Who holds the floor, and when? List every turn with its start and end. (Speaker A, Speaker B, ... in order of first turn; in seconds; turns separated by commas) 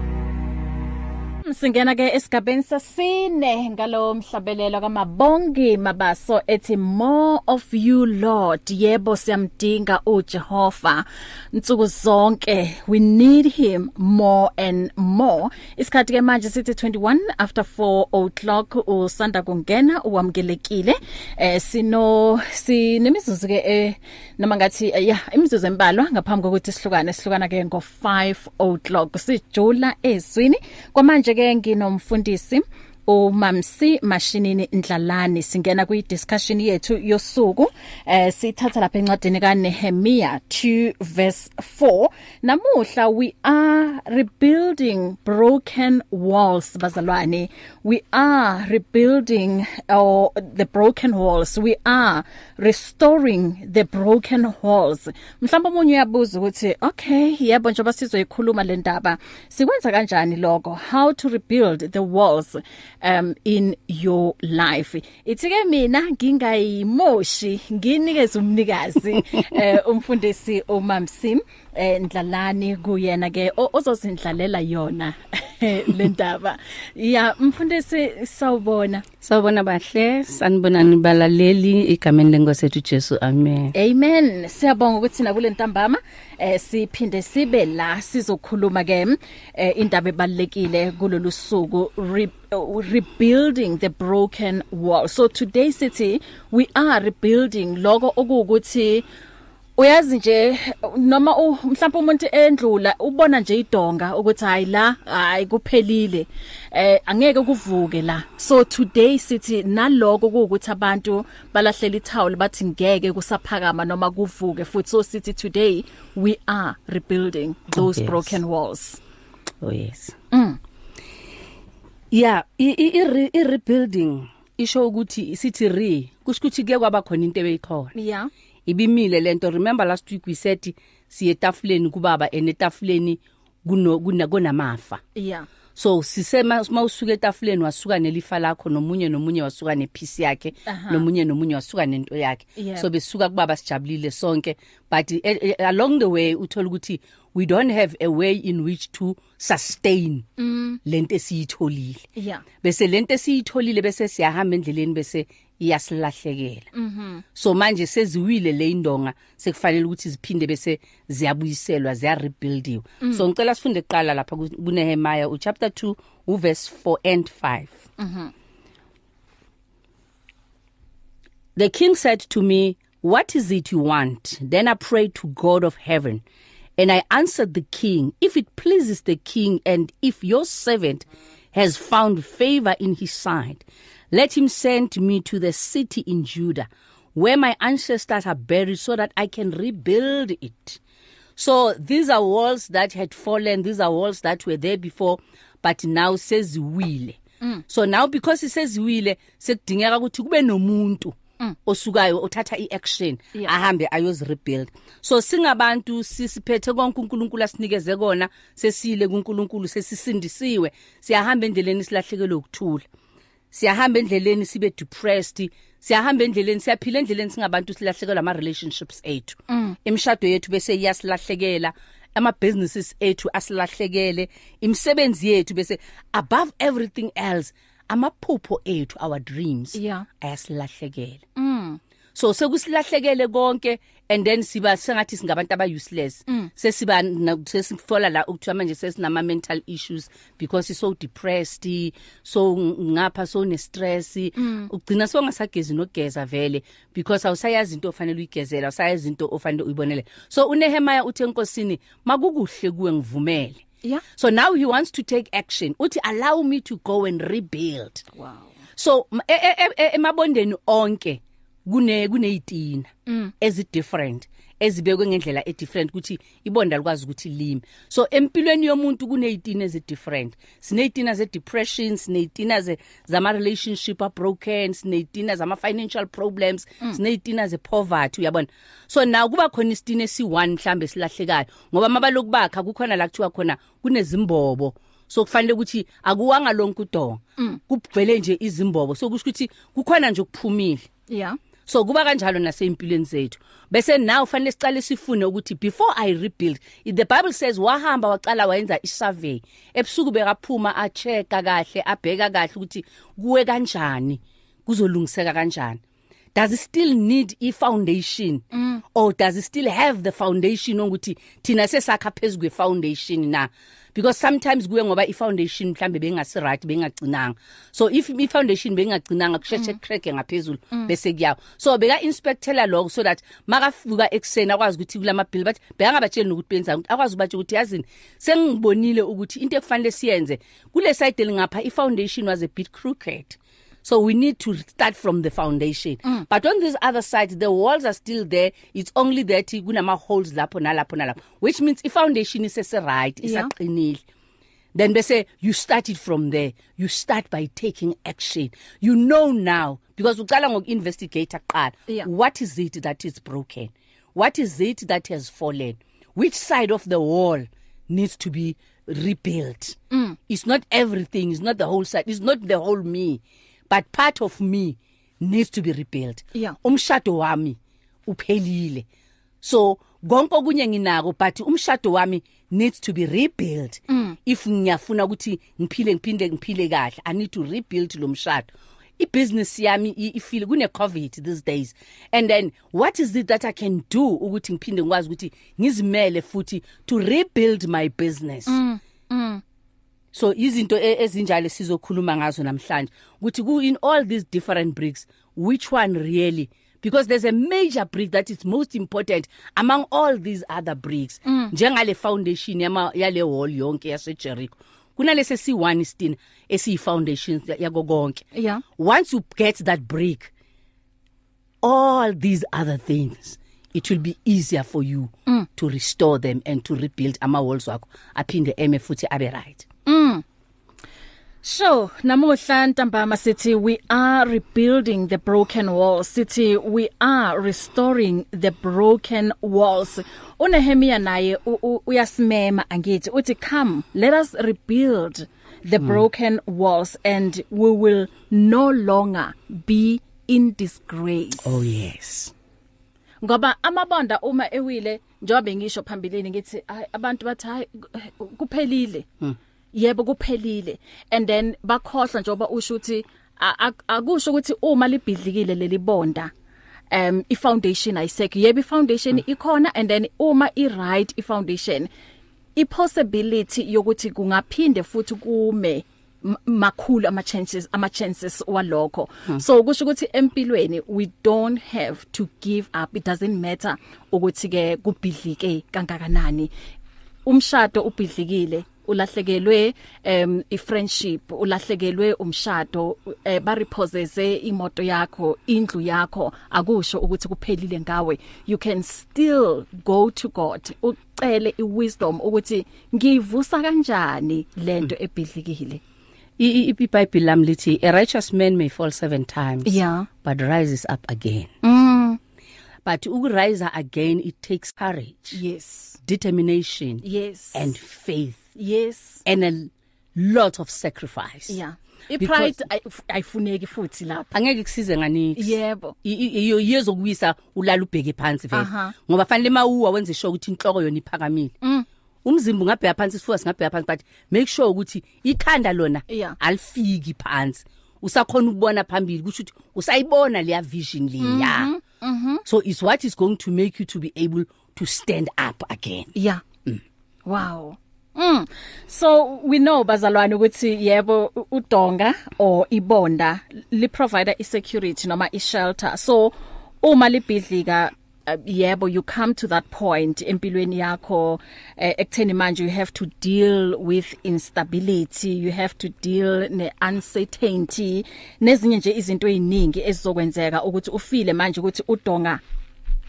Speaker A: 1.5-79.0, Speaker B: 79.2-83.7, Speaker A: 83.7-99.0, Speaker A: 99.8-119.0, Speaker B: 117.7-118.4, Speaker B: 119.6-120.2, Speaker A: 120.3-120.6, Speaker B: 122.1-127.9, Speaker A: 128.0-128.3, Speaker B: 128.7-135.0, Speaker A: 135.2-135.5, Speaker B: 135.8-150.3, Speaker A: 140.7-141.1, Speaker A: 142.6-142.9, Speaker A: 150.4-150.8, Speaker B: 150.8-152.1, Speaker A: 152.2-152.4, Speaker B: 152.6-156.7, Speaker A: 156.7-157.2, Speaker B: 157.3-167.9, Speaker A: 168.0-168.3, Speaker B: 171.6-176.2, Speaker B: 176.8-190.8, Speaker B: 191.4-201.2, Speaker B: 201.7-212.8, Speaker B: 213.5-231.2, Speaker A: 219.5-219.8, Speaker A: 229.8-230.1, Speaker A: 231.4-231.8, Speaker B: 232.2-253.6, Speaker A: 244.4-244.7, Speaker B: 254.2-258.1, Speaker A: 258.2-258.5, Speaker B: 258.8-290.9, Speaker A: 263.1-263.3, Speaker A: 291.1-291.4, Speaker B: 291.7-305.8, Speaker B: 306.4-344.0, Speaker A: 308.5-308.8, Speaker A: 343.2-343.5, Speaker B: 344.8-368.9, Speaker A: 359.9-360.2, Speaker B: 369.4-388.6, Speaker A: 373.9-374.2, Speaker A: 388.5-389.4, Speaker B: 390.1-408.3, Speaker A: 401.3-401.5, Speaker A: 408.4-408.6, Speaker B: 408.8-410.3, Speaker B: 411.6-419.6, Speaker A: 419.9-420.2, Speaker A: 421.4-441.5, Speaker B: 441.4-442.3, Speaker A: 443.2-449.1, Speaker A: 449.7-456.3, Speaker A: 456.9-461.9, Speaker A: 462.6-476.5, Speaker A: 477.2-495.8, Speaker B: 496.4-501.5, Speaker A: 499.7-500.1, Speaker A: 501.6-502.2, Speaker B: 502.9-505.4, Speaker A: 505.3-506.0, Speaker B: 506.0-508.5, Speaker A: 507.0-507.7, Speaker A: 508.6-509.2, Speaker B: 509.2-511.6, Speaker A: 511.5-514.3, Speaker B: 512.2-512.6, Speaker B: 514.3-521.5, Speaker A: 515.4-516.0, Speaker A: 518.5-519.0, Speaker B: 522.2-531.7, Speaker A: 526.1-526.4, Speaker A: 531.2-532.4, Speaker B: 532.5-536.1, Speaker A: 536.2-536.4, Speaker A: 537.3-562.4